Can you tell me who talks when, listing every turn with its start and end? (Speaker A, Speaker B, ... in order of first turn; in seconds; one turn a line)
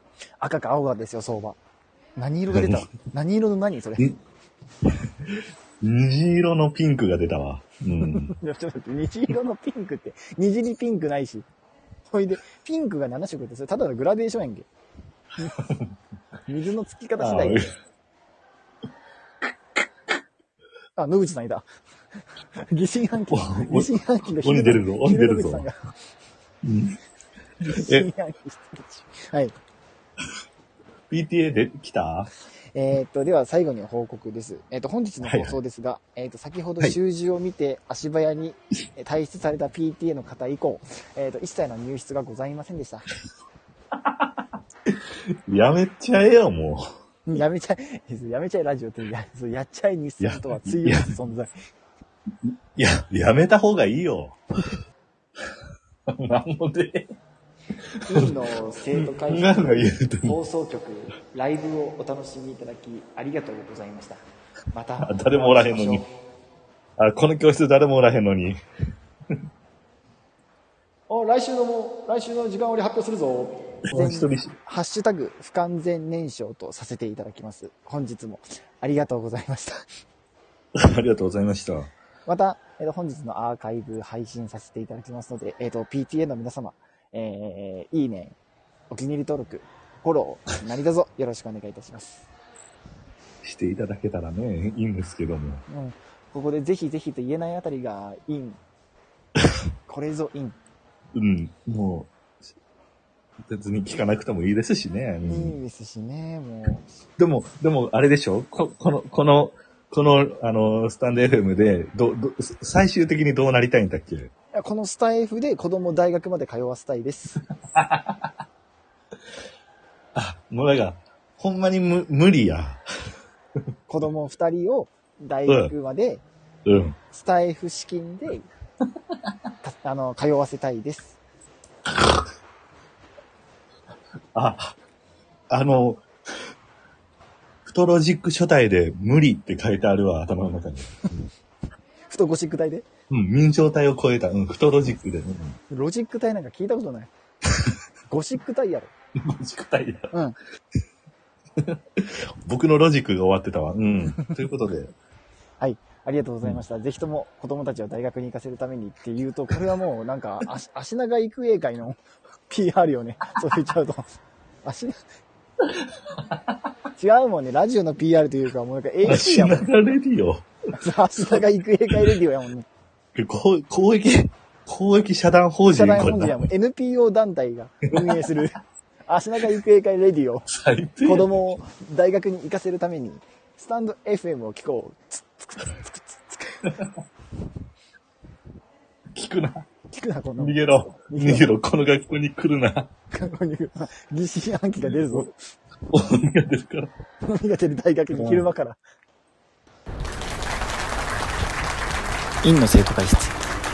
Speaker A: 0.4-1.6
Speaker A: 2.2-4.1
Speaker B: 2.5-2.8
Speaker B: 4.8-8.3
Speaker A: 8.0-11.5
Speaker A: 12.1-14.7
Speaker B: 15.6-15.9
Speaker A: 16.5-17.6
Speaker B: 17.2-17.6
Speaker A: 20.9-21.6
Speaker A: 22.6-25.7
Speaker B: 23.3-25.7
Speaker B: 26.6-27.0
Speaker A: 27.6-29.5
Speaker B: 27.7-28.1
Speaker B: 31.1-32.3
Speaker A: 32.7-43.1
Speaker B: 35.2-35.5
Speaker B: 43.9-46.8
Speaker A: 47.3-51.5
Speaker B: 50.2-51.1
Speaker B: 52.4-54.7
Speaker B: 56.1-57.1
Speaker B: 58.0-58.4
Speaker A: 58.1-66.0
Speaker B: 58.9-60.4
Speaker B: 65.0-66.0
Speaker B: 67.0-68.6
Speaker A: 71.1-79.8
Speaker B: 73.9-74.5
Speaker B: 80.7-81.9
Speaker A: 82.2-88.3
Speaker A: 88.9-92.2
Speaker B: 93.4-95.6
Speaker A: 95.7-98.6
Speaker A: 99.9-100.6
Speaker B: 101.1-102.1
Speaker B: 103.5-105.6
Speaker A: 105.2-106.9
Speaker B: 107.2-114.3
Speaker A: 114.5-117.4
Speaker B: 117.7-118.3
Speaker B: 120.1-122.8
Speaker A: 123.9-126.2
Speaker B: 125.5-125.7
Speaker B: 126.7-127.0
Speaker A: 127.1-128.5
Speaker A: 129.6-131.2
Speaker B: 131.9-132.3
Speaker B: 134.3-134.8
Speaker B: 135.5-136.1
Speaker B: 137.7-141.0
Speaker A: 142.1-142.8
Speaker B: 143.1-145.6
Speaker A: 145.7-147.1
Speaker A: 148.1-148.9
Speaker B: 149.2-150.1
Speaker A: 150.1-150.4
Speaker B: 151.6-154.9
Speaker A: 155.6-164.1
Speaker A: 164.6-165.0
Speaker B: 165.6-166.7
Speaker A: 167.0-169.6
Speaker B: 169.0-170.5
Speaker A: 170.8-172.7
Speaker B: 171.2-171.4
Speaker B: 173.1-176.5
Speaker A: 175.7-180.5
Speaker B: 177.9-178.3
Speaker B: 180.5-181.6
Speaker A: 181.0-186.7
Speaker B: 186.6-186.9
Speaker B: 189.1-189.7
Speaker A: 189.9-191.5
Speaker B: 190.4-192.9
Speaker A: 193.1-195.3
Speaker B: 195.9-196.9
Speaker A: 197.3-198.8
Speaker B: 198.1-198.5
Speaker A: 202.4-203.3